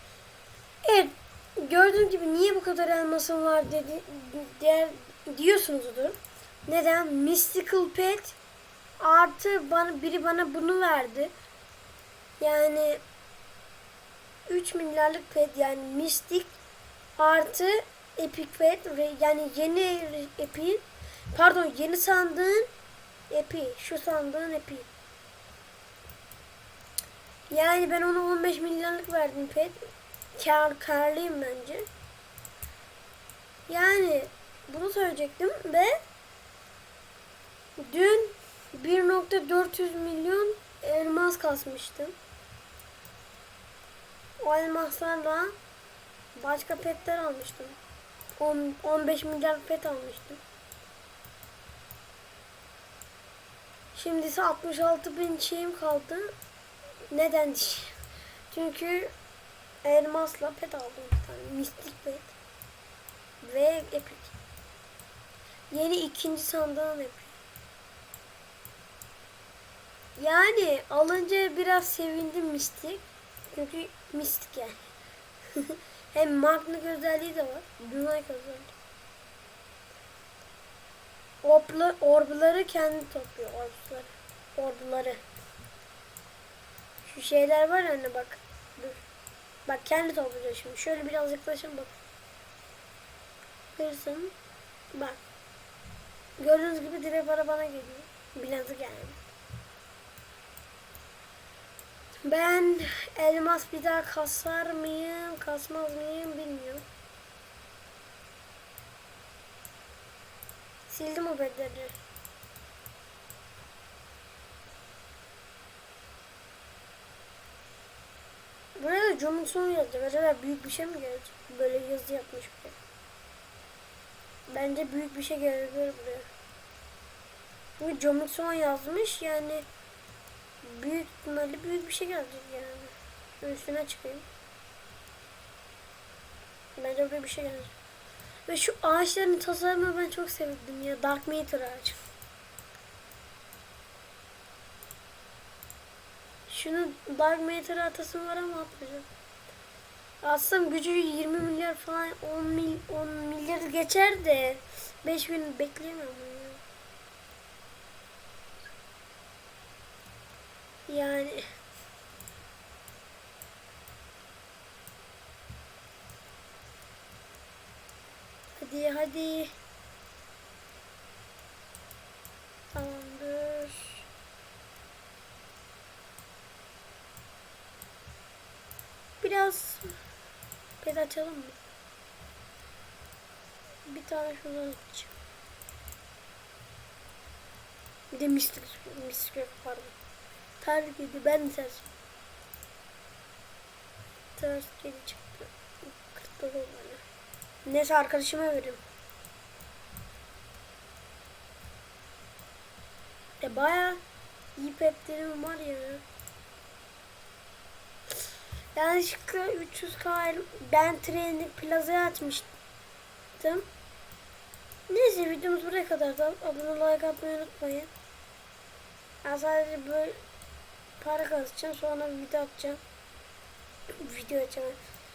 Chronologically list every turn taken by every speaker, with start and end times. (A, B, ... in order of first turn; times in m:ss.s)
0:00.8-0:08.4 A
0:09.0-0:11.3 A
0:12.4-0:13.0 A
0:14.5-0:16.6 A
0:17.2-0:22.7 A
0:23.3-0:24.9 A
0:27.5-0:31.9 A
0:33.7-0:36.0 A
0:37.8-0:42.2 A
0:44.4-0:45.5 A
0:46.4-0:47.8 A
0:48.4-0:50.4 A
0:53.9-0:56.3 A
0:57.1-0:58.0 A
0:58.5-0:59.1 A
0:59.8-1:02.4 A
1:03.4-1:04.4 A
1:05.7-1:07.4 A
1:10.2-1:14.9 A
1:15.6-1:18.7 A
1:21.4-1:25.2 A
1:27.0-1:29.0 A
1:29.7-1:31.9 A
1:33.8-1:34.3 A
1:34.9-1:35.2 A
1:36.4-1:39.2 A
1:42.2-1:46.8 A
1:50.9-1:52.0 A
1:58.8-2:02.8 A
2:04.5-2:06.3 A
2:07.8-2:09.7 A
2:10.6-2:14.3 A
2:16.8-2:17.7 A
2:18.5-2:22.0 A
2:26.5-2:29.1 A
2:30.2-2:36.6 A
2:40.9-2:41.4 A
2:48.6-2:49.5 A
2:52.7-2:54.0 A
2:59.2-2:59.9 A
3:00.8-3:01.6 A
3:03.9-3:05.1 A
3:08.1-3:09.9 A
3:10.6-3:11.9 A
3:14.4-3:17.0 A
3:17.6-3:18.8 A
3:23.4-3:24.0 A
3:24.6-3:26.0 A
3:28.8-3:32.5 A
3:33.4-3:33.7 A
3:34.9-3:37.9 A
3:39.2-3:40.2 A
3:41.0-3:42.8 A
3:44.0-3:44.8 A